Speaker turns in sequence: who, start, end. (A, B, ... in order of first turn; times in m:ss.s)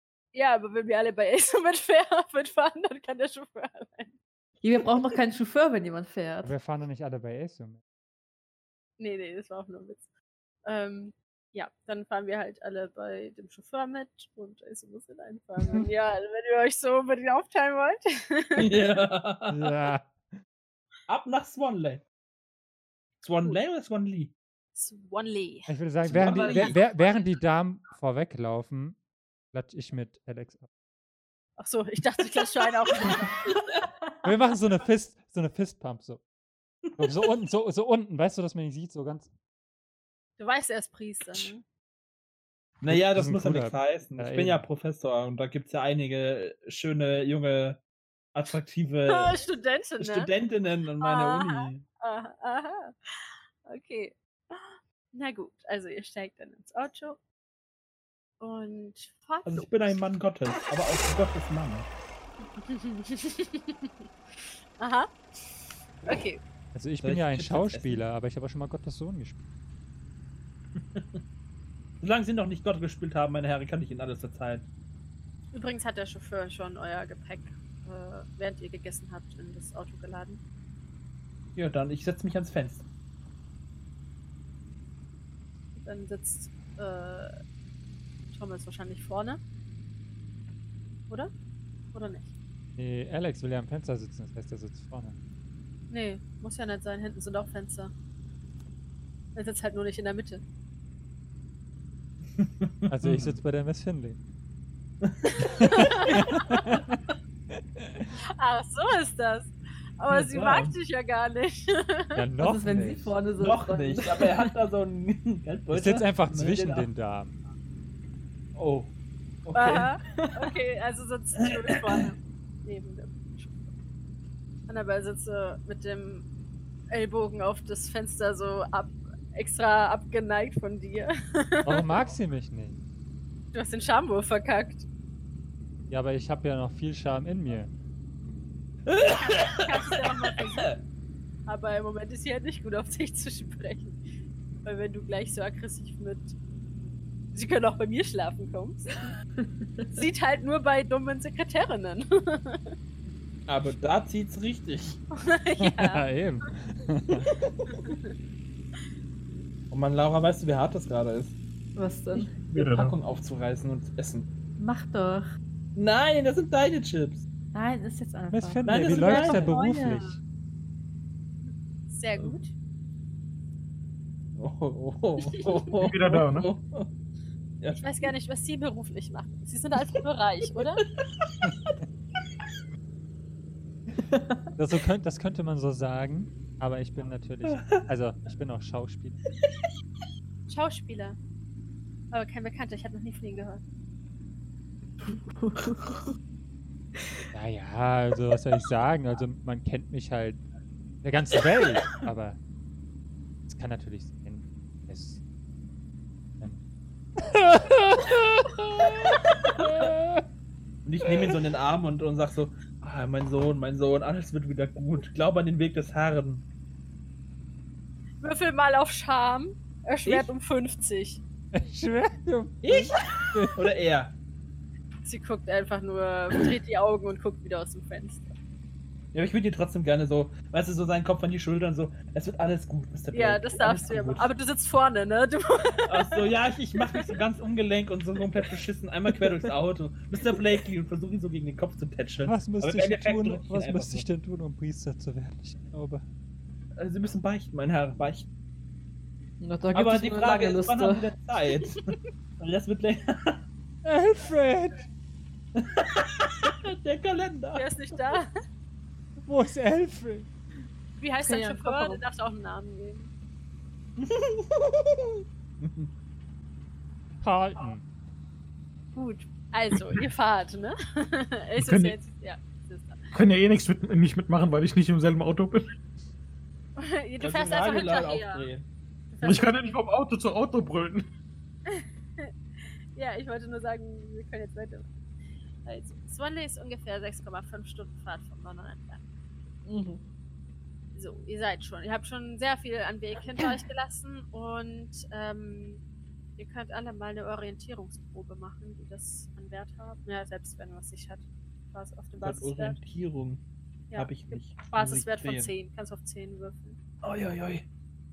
0:00.3-0:04.2 A
0:04.6-0:06.5 B
0:06.4-0:07.8 C
0:09.0-0:10.1 A
0:10.6-0:18.8 A
0:18.6-0:19.7 D
0:19.5-0:20.1 C
0:21.1-0:22.0 D
0:23.2-0:24.3 D
0:23.3-0:23.6 A
0:24.7-0:25.7 A
0:25.7-0:29.0 C
0:26.0-0:26.8 D
0:29.5-0:30.7 C
0:31.6-0:33.6 A
0:34.2-0:36.2 C
0:37.0-0:39.3 C
0:40.4-0:41.6 A
0:42.8-0:47.8 D
0:42.9-0:44.7 C
0:48.3-0:49.4 D
0:49.1-0:50.3 A
0:50.0-0:51.8 D
0:51.0-0:57.2 A
0:58.4-1:00.0 A
0:59.4-1:01.9 D
1:02.5-1:06.4 A
1:06.7-1:09.4 C
1:07.0-1:08.0 D
1:10.8-1:11.2 D
1:12.0-1:14.7 D
1:15.5-1:20.4 A
1:21.5-1:22.8 D
1:25.8-1:27.4 A
1:28.3-1:29.4 A
1:31.9-1:32.3 A
1:32.8-1:35.2 C
1:35.9-1:37.9 A
1:39.3-1:40.4 A
1:42.4-1:43.4 D
1:42.9-1:44.2 C
1:45.1-1:46.1 D
1:45.4-1:46.8 A
1:45.6-1:47.0 C
1:47.8-1:48.1 C
1:48.3-1:52.2 A
1:50.1-1:50.7 D
1:52.2-1:53.1 C
1:52.4-1:54.4 B
1:53.3-1:56.9 D
1:55.7-1:57.4 C
1:58.5-1:58.9 D
1:59.4-1:59.9 D
1:59.5-2:03.7 A
2:00.2-2:00.5 B
2:01.4-2:02.1 D
2:04.7-2:06.3 A
2:06.9-2:11.9 A
2:11.6-2:12.8 C
2:13.5-2:14.9 A
2:15.9-2:17.7 C
2:18.9-2:20.8 D
2:19.0-2:20.8 A
2:21.4-2:24.0 A
2:24.6-2:26.4 A
2:27.3-2:29.1 A
2:29.6-2:30.0 B
2:29.9-2:32.7 A
2:33.5-2:35.0 D
2:35.1-2:36.0 A
2:35.6-2:37.3 C
2:37.7-2:38.1 A
2:39.7-2:41.4 D
2:41.8-2:42.4 B
2:42.5-2:43.0 E
2:42.5-2:44.3 D
2:44.6-2:45.3 B
2:45.7-2:47.2 D
2:47.5-2:50.1 B
2:48.3-2:50.2 C
2:48.6-2:49.6 D
2:51.5-2:52.5 A
2:54.4-2:56.9 D
2:55.8-2:56.5 E
2:57.8-3:00.8 A
3:01.2-3:01.7 D
3:04.1-3:04.4 B
3:04.6-3:09.2 C
3:07.4-3:07.8 D
3:10.5-3:11.2 A
3:12.1-3:13.6 A
3:15.1-3:16.1 B
3:17.3-3:20.4 C
3:21.0-3:22.4 C
3:23.5-3:25.2 C
3:27.2-3:30.2 C
3:30.8-3:36.4 D
3:38.2-3:41.2 A
3:40.0-3:40.3 D
3:41.5-3:43.6 C
3:42.6-3:44.1 D
3:45.0-3:48.4 A
3:49.1-3:54.3 D
3:53.1-3:57.2 A
3:55.9-4:04.0 D
4:02.2-4:06.0 C
4:06.8-4:08.3 D
4:09.4-4:11.1 B
4:09.7-4:13.4 D
4:13.8-4:14.8 C
4:15.6-4:17.7 D
4:17.5-4:18.3 A
4:19.2-4:20.3 C
4:21.0-4:23.1 A
4:21.2-4:22.0 B
4:24.0-4:25.9 D
4:27.2-4:27.8 C
4:28.9-4:33.1 A
4:31.6-4:32.0 E
4:33.1-4:35.7 E
4:36.8-4:38.5 A
4:37.2-4:38.6 D
4:39.1-4:39.8 A
4:39.2-4:41.1 E
4:41.7-4:42.3 A
4:42.9-4:44.9 A
4:45.6-4:49.1 A
4:49.6-4:50.0 B
4:50.9-4:55.8 A
4:56.4-5:02.8 A
5:02.2-5:03.4 D
5:03.9-5:06.8 A
5:03.9-5:05.5 D
5:07.0-5:07.6 D